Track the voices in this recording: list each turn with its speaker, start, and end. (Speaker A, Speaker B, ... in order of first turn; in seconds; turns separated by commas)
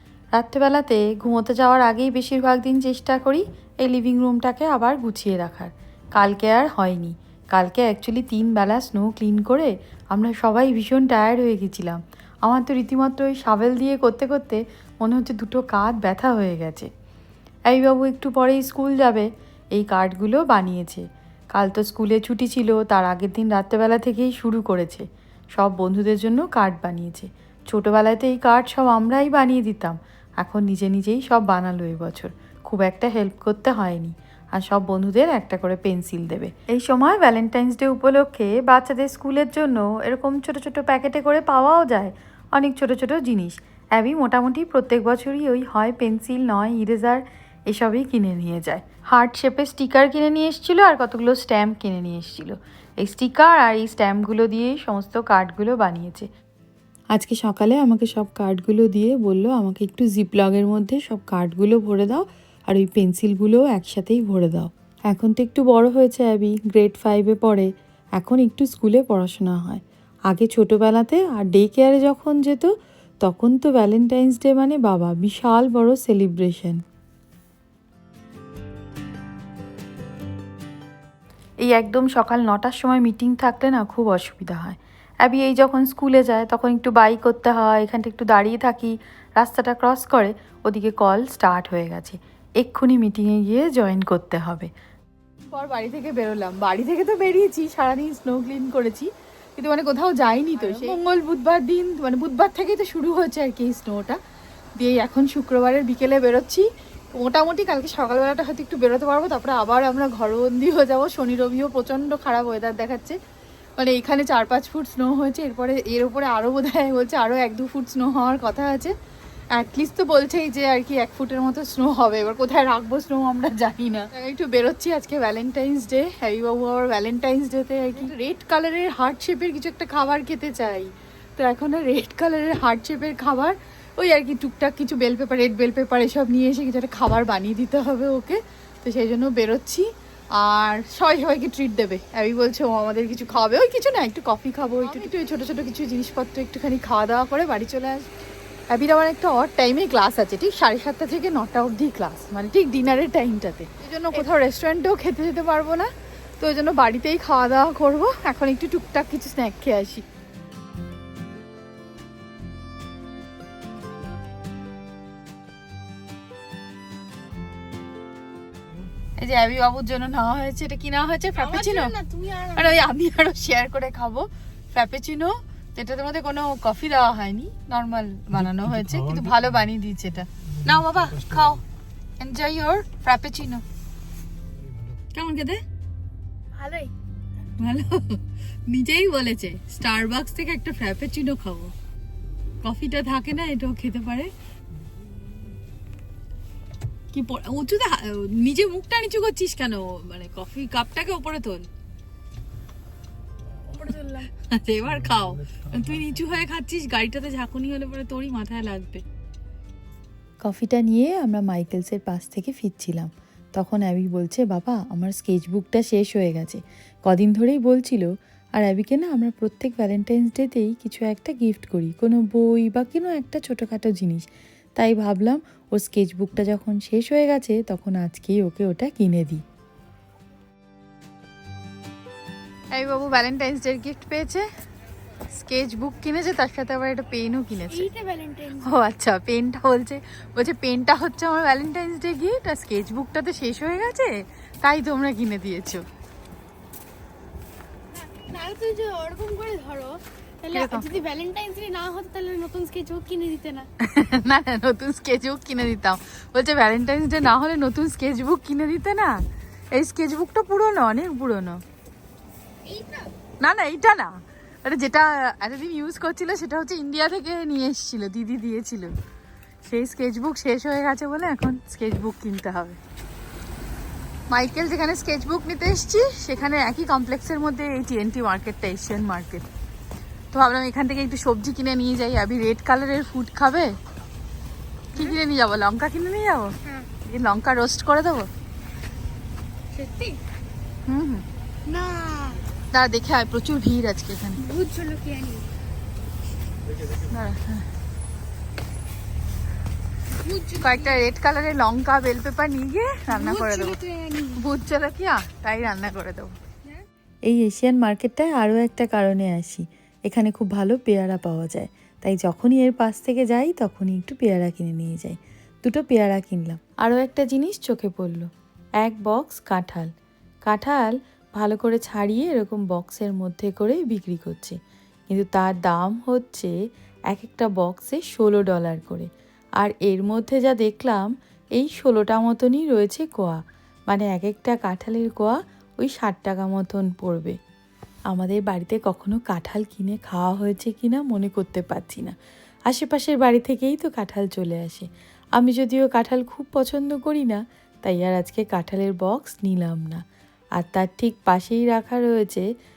Speaker A: 0.3-16.9, Speaker A: 17.7-56.3, Speaker A: 57.1-72.7, Speaker A: 73.2-76.8, Speaker A: 81.6-94.7, Speaker A: 95.5-104.2, Speaker A: 104.8-106.7, Speaker A: 107.2-113.2, Speaker A: 113.8-118.9, Speaker A: 119.5-148.1, Speaker B: 144.8-145.3, Speaker A: 148.7-160.0, Speaker A: 169.2-171.9, Speaker B: 171.3-172.9, Speaker A: 172.5-181.6, Speaker A: 182.2-183.6, Speaker A: 185.1-185.6, Speaker B: 186.5-186.9, Speaker A: 187.6-191.7, Speaker A: 192.6-194.3, Speaker A: 197.1-201.7, Speaker B: 203.7-204.3, Speaker A: 204.3-209.0, Speaker A: 210.4-229.4, Speaker A: 232.7-234.4, Speaker A: 235.3-237.8, Speaker B: 237.7-238.7, Speaker A: 238.6-245.8, Speaker B: 247.9-253.7, Speaker A: 250.5-250.9, Speaker A: 253.8-259.1, Speaker A: 259.7-261.6, Speaker B: 262.6-263.1, Speaker A: 263.4-264.1, Speaker A: 264.6-268.9, Speaker A: 269.6-272.8, Speaker A: 274.3-279.4, Speaker A: 280.3-283.7, Speaker B: 284.9-285.2, Speaker A: 285.0-286.5, Speaker B: 286.6-286.9, Speaker A: 287.1-288.3, Speaker B: 289.7-290.2, Speaker A: 290.9-291.2, Speaker B: 291.7-292.4, Speaker A: 292.7-294.4, Speaker B: 294.3-295.5, Speaker A: 297.0-297.6, Speaker B: 300.1-301.1, Speaker A: 300.6-303.7, Speaker B: 303.1-304.4, Speaker A: 304.4-306.3, Speaker A: 307.2-318.3, Speaker A: 318.8-319.9, Speaker A: 320.4-324.6, Speaker A: 325.1-326.5, Speaker A: 327.1-337.4, Speaker A: 338.1-342.1, Speaker A: 342.7-350.0, Speaker A: 350.6-352.4